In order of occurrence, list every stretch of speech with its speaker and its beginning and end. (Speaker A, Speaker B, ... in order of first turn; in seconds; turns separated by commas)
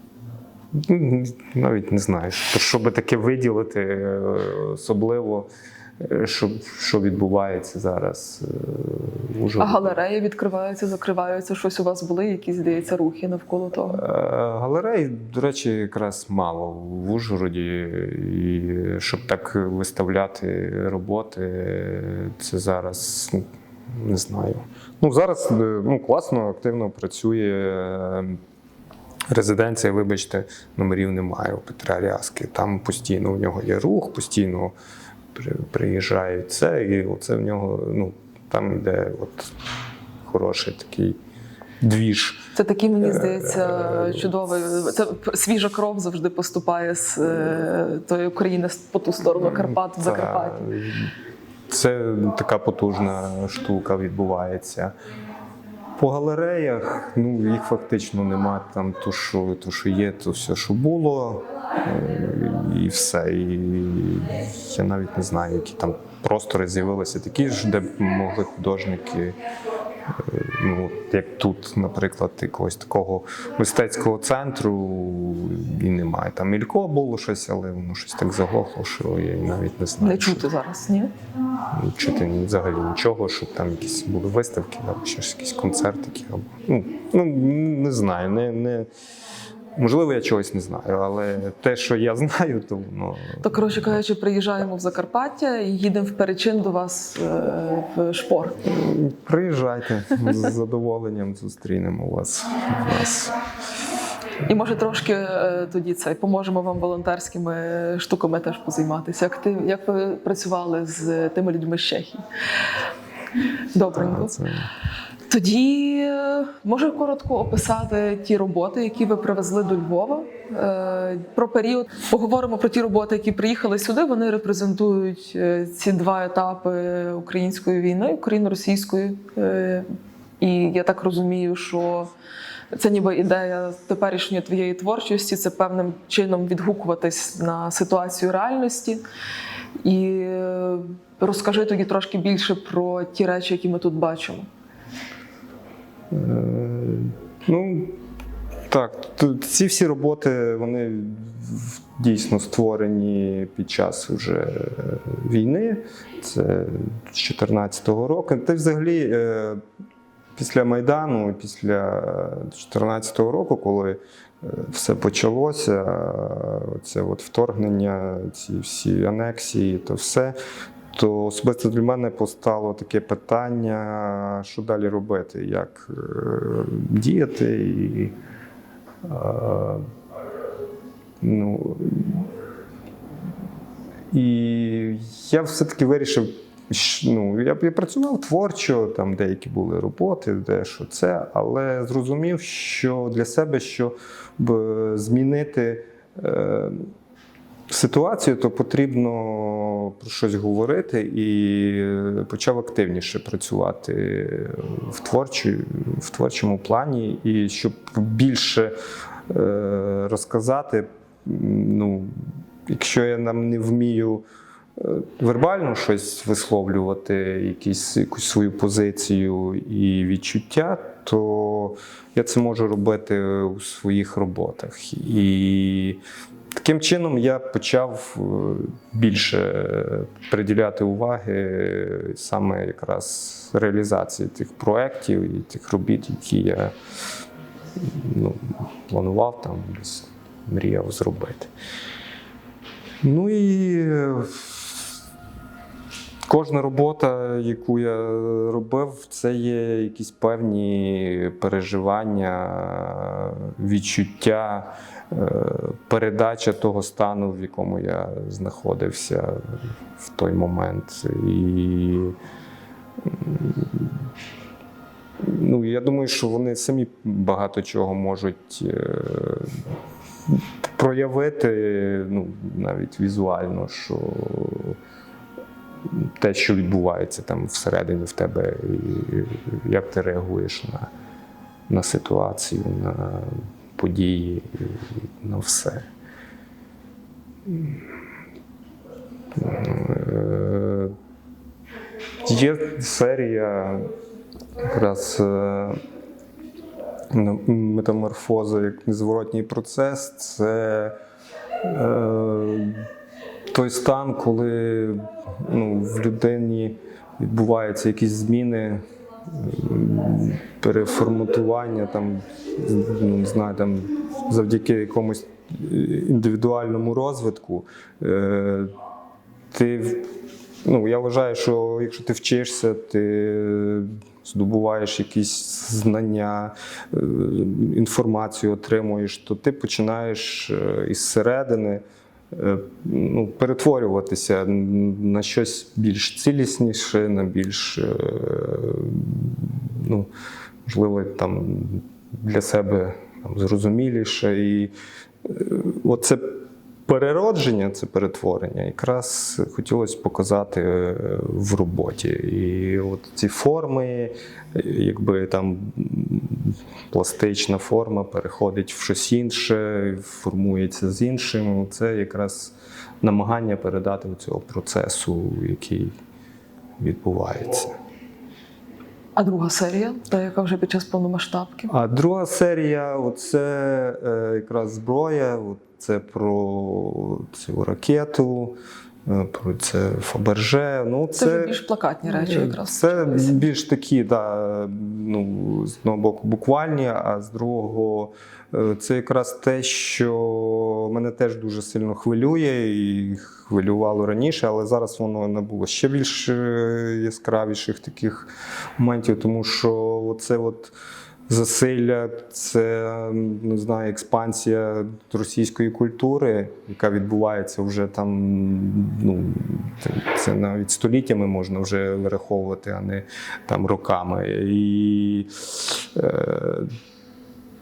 Speaker A: 0.8-10.0, Speaker B: 9.6-14.0, Speaker A: 13.9-28.4, Speaker A: 29.3-34.7, Speaker A: 35.3-39.5, Speaker A: 40.3-41.2, Speaker A: 41.8-42.5, Speaker B: 42.5-50.7, Speaker A: 43.0-44.3, Speaker A: 49.4-51.1, Speaker A: 51.7-54.9, Speaker A: 56.0-69.4, Speaker A: 70.1-80.5, Speaker B: 80.0-81.1, Speaker A: 81.7-88.9, Speaker A: 89.8-94.0, Speaker B: 93.4-98.6, Speaker A: 98.6-103.4, Speaker B: 104.5-112.2, Speaker B: 113.7-114.4, Speaker A: 114.0-114.7, Speaker B: 115.3-129.9, Speaker B: 130.4-132.1, Speaker B: 132.7-139.0, Speaker B: 139.8-144.5, Speaker A: 146.1-148.0, Speaker A: 148.7-159.6, Speaker A: 160.4-170.3, Speaker A: 170.9-178.2, Speaker A: 179.0-179.9, Speaker A: 181.2-182.3, Speaker A: 184.1-196.9, Speaker A: 197.7-208.8, Speaker A: 209.3-212.1, Speaker A: 212.7-214.2, Speaker A: 214.8-226.0, Speaker A: 226.6-236.8, Speaker A: 237.8-241.5, Speaker A: 243.0-244.8, Speaker A: 246.3-262.2, Speaker A: 263.0-264.0, Speaker A: 265.2-269.7, Speaker A: 270.3-274.8, Speaker A: 275.9-280.9, Speaker A: 281.7-285.9, Speaker A: 287.5-287.8, Speaker A: 289.4-290.9, Speaker A: 292.2-293.9, Speaker A: 294.6-295.8, Speaker A: 297.1-301.0, Speaker A: 301.6-302.9, Speaker A: 303.5-318.7, Speaker A: 319.5-320.1, Speaker A: 320.6-340.1, Speaker A: 340.7-344.7, Speaker A: 345.2-365.9, Speaker A: 366.8-367.8, Speaker B: 369.2-371.7, Speaker A: 371.7-400.7, Speaker B: 381.2-383.4, Speaker A: 401.3-416.7